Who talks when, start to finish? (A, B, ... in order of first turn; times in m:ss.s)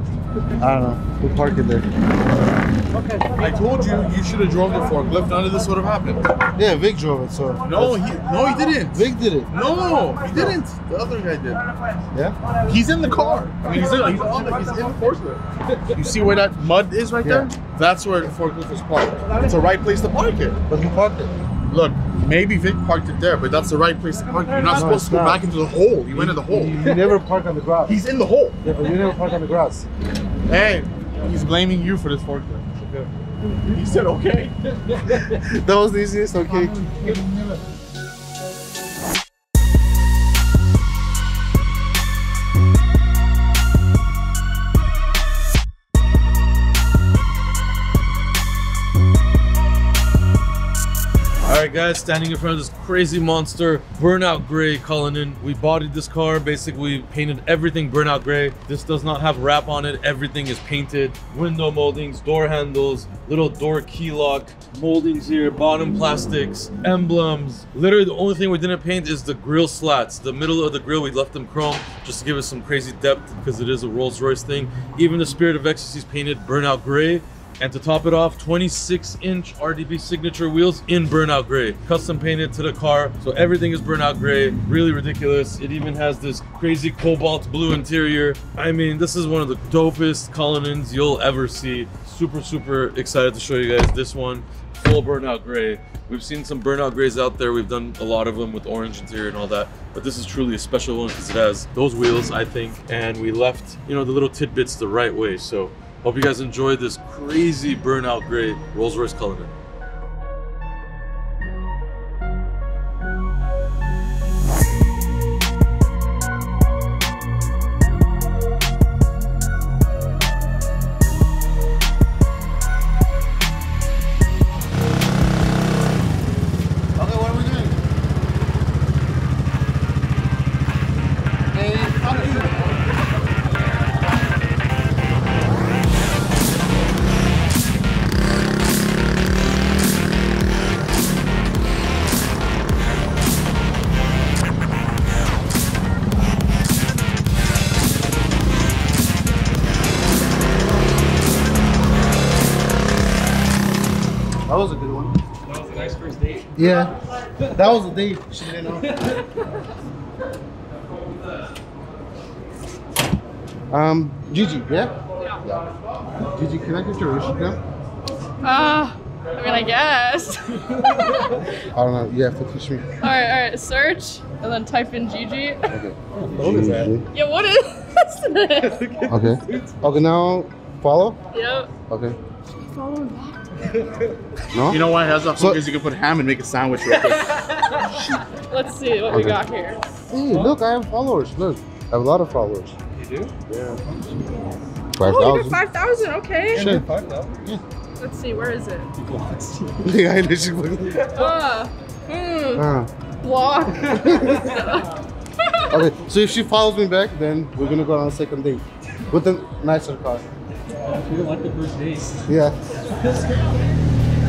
0:00.6-0:01.9 A
0:03.4-0:06.3 B
0:06.6-0:08.0 A
0:07.6-0:11.6 B
0:08.9-0:09.5 A
0:12.6-0:20.6 B
0:17.2-0:17.5 A
0:20.7-0:21.3 A
0:21.7-0:26.8 B
0:24.6-0:25.4 A
0:26.1-0:28.0 A
0:27.8-0:28.6 B
0:28.6-0:29.9 A
0:30.5-0:32.9 B
0:33.7-0:34.5 B
0:35.3-0:37.1 A
0:51.4-1:49.5 C
2:07.0-2:07.8 A
2:11.5-2:12.5 A
2:34.5-2:35.1 A
2:35.5-2:36.5 D
2:36.6-2:37.0 A
2:37.5-2:38.9 A
2:43.7-2:45.6 A
2:46.3-2:47.6 A
2:48.4-2:51.4 E
2:51.6-2:52.9 A
2:53.0-2:55.6 E
2:55.7-2:57.0 A
2:56.2-2:56.9 D
2:57.1-2:58.9 E
2:59.1-3:01.2 A
3:01.3-3:01.7 E
3:01.9-3:02.2 A
3:02.6-3:03.4 E
3:04.5-3:04.8 A
3:04.7-3:07.4 B
3:08.4-3:09.8 E
3:09.1-3:09.4 A
3:10.1-3:12.7 A
3:13.0-3:13.3 D
3:14.9-3:15.6 A
3:15.0-3:16.7 E
3:16.5-3:16.9 A
3:16.6-3:17.4 D
3:18.0-3:18.9 E
3:19.0-3:19.9 D
3:19.8-3:21.1 A
3:21.1-3:22.6 E
3:22.5-3:22.9 A
3:23.2-3:24.8 E
3:24.0-3:24.4 A
3:25.7-3:30.2 A
3:30.9-3:32.2 D
3:32.3-3:32.6 A